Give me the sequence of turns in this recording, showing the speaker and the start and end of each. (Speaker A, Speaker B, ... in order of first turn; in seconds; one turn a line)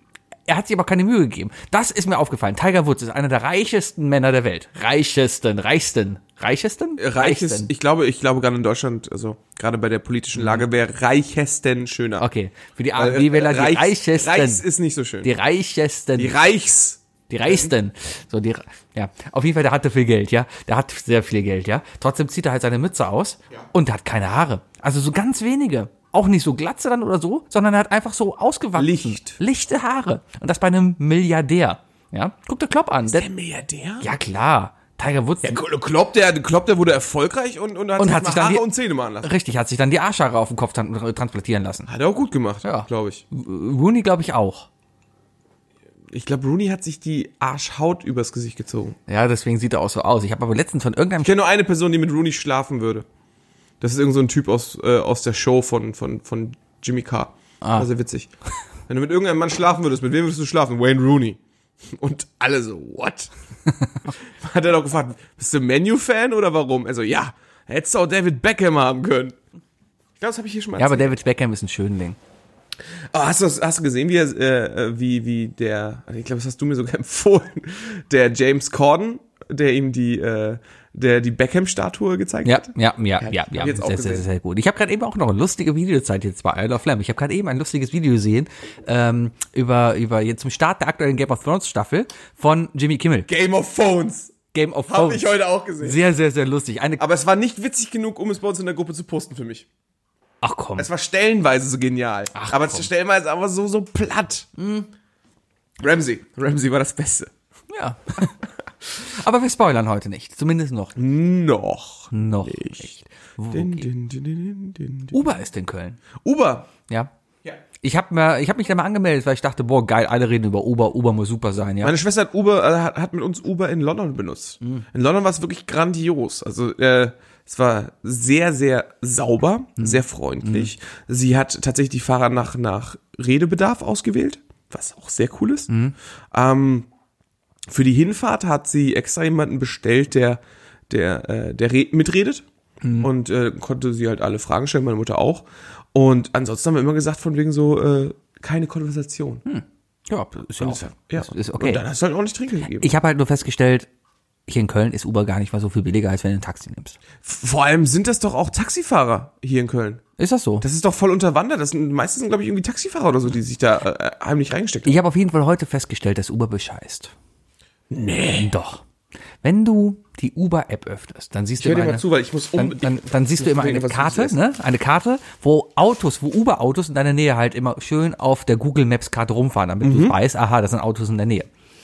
Speaker A: 0.5-7.7
Speaker B: 7.0-12.3
Speaker A: 10.3-10.7
Speaker A: 12.2-14.6
Speaker B: 12.9-15.3
Speaker A: 15.2-16.4
Speaker B: 16.2-17.7
Speaker A: 17.3-33.3
Speaker B: 28.8-29.4
Speaker B: 33.1-34.1
Speaker A: 34.0-35.6
Speaker B: 35.4-39.3
Speaker A: 38.0-38.7
Speaker A: 39.2-41.9
Speaker B: 41.9-43.2
Speaker A: 42.6-44.7
Speaker B: 46.1-49.0
Speaker A: 49.1-51.3
Speaker B: 51.2-53.0
Speaker B: 53.8-58.3
Speaker A: 57.6-57.9
Speaker B: 58.9-63.3
Speaker B: 64.2-69.4
Speaker B: 70.2-71.2
Speaker A: 70.8-72.2
Speaker B: 73.1-84.2
Speaker A: 82.4-93.3
Speaker B: 93.3-94.3
Speaker A: 94.5-97.0
Speaker B: 94.9-96.0
Speaker B: 97.0-99.7
Speaker A: 100.4-100.9
Speaker B: 100.8-104.5
Speaker A: 102.3-102.9
Speaker A: 104.6-104.9
Speaker B: 105.8-107.3
Speaker A: 107.7-108.3
Speaker A: 108.9-111.0
Speaker B: 111.0-113.0
Speaker A: 112.1-113.9
Speaker B: 113.5-115.2
Speaker A: 115.1-116.0
Speaker B: 116.2-116.7
Speaker A: 117.8-121.9
Speaker B: 121.8-135.7
Speaker A: 129.8-130.7
Speaker A: 135.7-135.9
Speaker B: 136.3-136.9
Speaker B: 137.7-142.4
Speaker A: 142.8-143.1
Speaker B: 143.0-149.4
Speaker A: 149.4-151.8
Speaker B: 150.6-152.9
Speaker A: 152.8-153.9
Speaker A: 154.5-157.0
Speaker B: 157.2-160.0
Speaker A: 160.2-160.6
Speaker B: 160.6-165.0
Speaker A: 164.8-167.1
Speaker B: 167.9-168.5
Speaker A: 168.4-168.8
Speaker A: 169.4-181.5
Speaker B: 171.6-174.4
Speaker B: 179.8-180.2